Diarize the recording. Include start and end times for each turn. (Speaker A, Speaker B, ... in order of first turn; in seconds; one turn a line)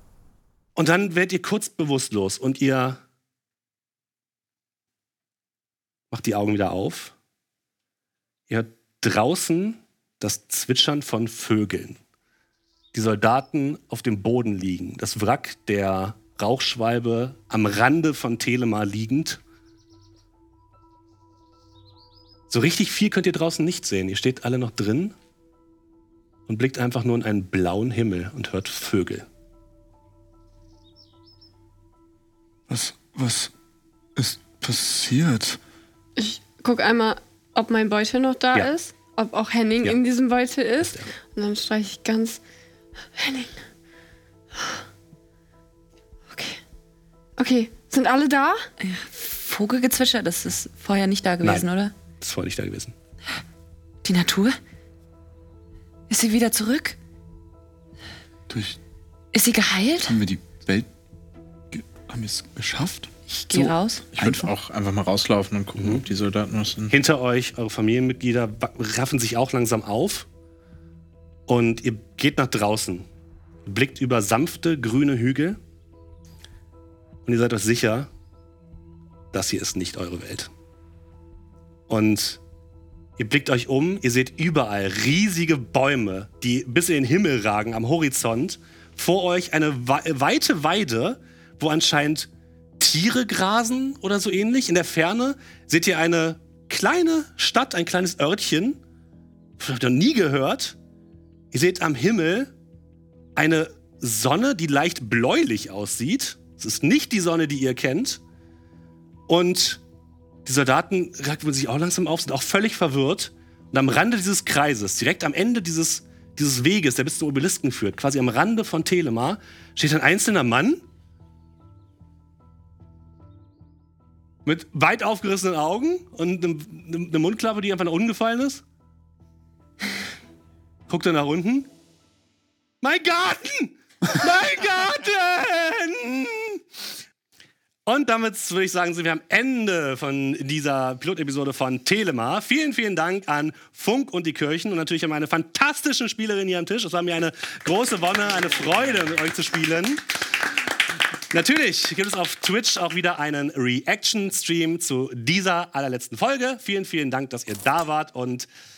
Speaker A: 0.8-3.0
Speaker A: 6.1-7.1
Speaker A: 8.5-12.0
Speaker A: 12.9-19.4
Speaker A: 22.5-25.1
Speaker A: 26.5-29.2
Speaker B: 32.7-33.5
Speaker B: 34.2-35.6
Speaker C: 36.2-42.4
Speaker C: 43.2-43.6
Speaker D: 46.3-46.6
Speaker C: 47.4-48.6
Speaker D: 48.8-51.9
Speaker A: 52.2-52.9
Speaker D: 54.0-54.6
Speaker D: 56.1-57.0
Speaker B: 58.5-58.8
Speaker D: 59.3-60.2
Speaker B: 60.0-60.9
Speaker B: 61.7-64.5
Speaker D: 63.3-64.0
Speaker E: 64.1-67.0
Speaker A: 65.8-66.0
Speaker A: 66.9-70.3
Speaker A: 71.5-73.1
Speaker A: 73.7-75.6
Speaker A: 77.2-78.1
Speaker A: 79.3-80.5
Speaker A: 81.9-82.4
Speaker A: 83.2-92.3
Speaker A: 92.8-98.8
Speaker A: 99.6-100.8
Speaker A: 101.5-102.5
Speaker A: 103.4-108.2
Speaker A: 109.3-109.8
Speaker A: 110.5-120.8
Speaker A: 124.5-128.6
Speaker A: 130.9-131.7
Speaker A: 132.8-136.6
Speaker A: 137.9-150.1
Speaker A: 151.3-158.5